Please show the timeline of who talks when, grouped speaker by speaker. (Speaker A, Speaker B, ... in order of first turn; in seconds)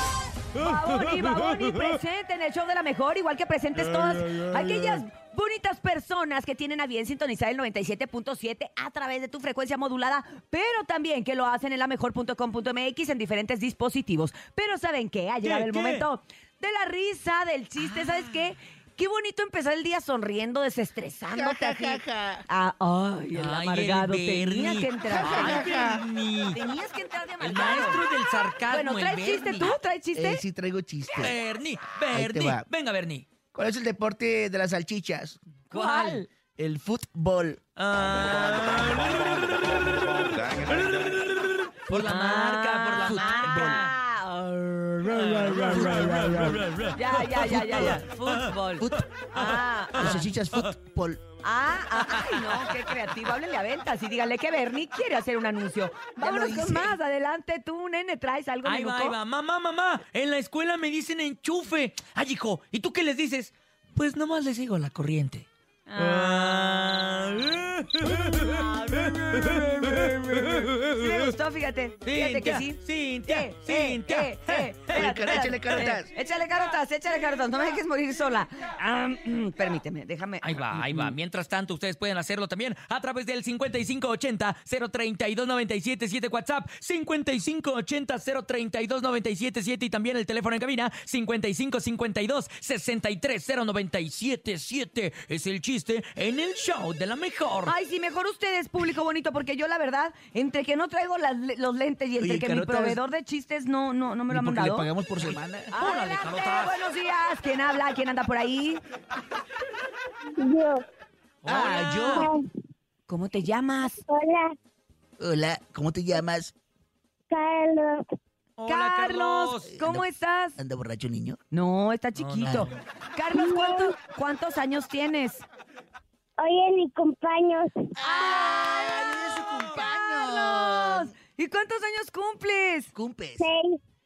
Speaker A: 0.5-25.8, 26.5-28.0, 28.7-30.4, 35.7-36.2, 41.9-50.2, 51.4-59.2, 65.9-66.7, 68.0-81.1, 97.6-104.9, 105.7-108.8, 113.1-114.0, 118.7-120.6, 121.5-125.4, 128.0-132.9
Speaker B: 15.4-16.1, 17.8-18.3, 23.3-26.6, 27.4-29.8, 31.2-33.2, 35.7-36.2, 37.8-43.9, 45.0-50.7, 52.0-52.7, 58.6-71.3, 72.0-75.9, 80.4-97.7, 105.2-106.8, 111.4-112.3, 118.6-119.7, 122.2-122.8
Speaker C: 21.3-22.4, 25.1-26.0, 30.1-31.4, 32.1-32.6, 33.5-35.4, 36.6-37.6, 43.0-43.8, 47.5-48.0, 50.0-51.2, 56.2-57.0, 74.9-76.1, 102.2-103.0, 104.3-105.7, 111.5-112.3, 115.2-116.5, 119.7-121.4, 128.0-131.1, 132.9-133.5
Speaker D: 110.4-110.8, 112.1-112.4, 114.0-114.5, 117.3-118.0, 123.3-124.0, 126.4-127.9, 133.4-133.8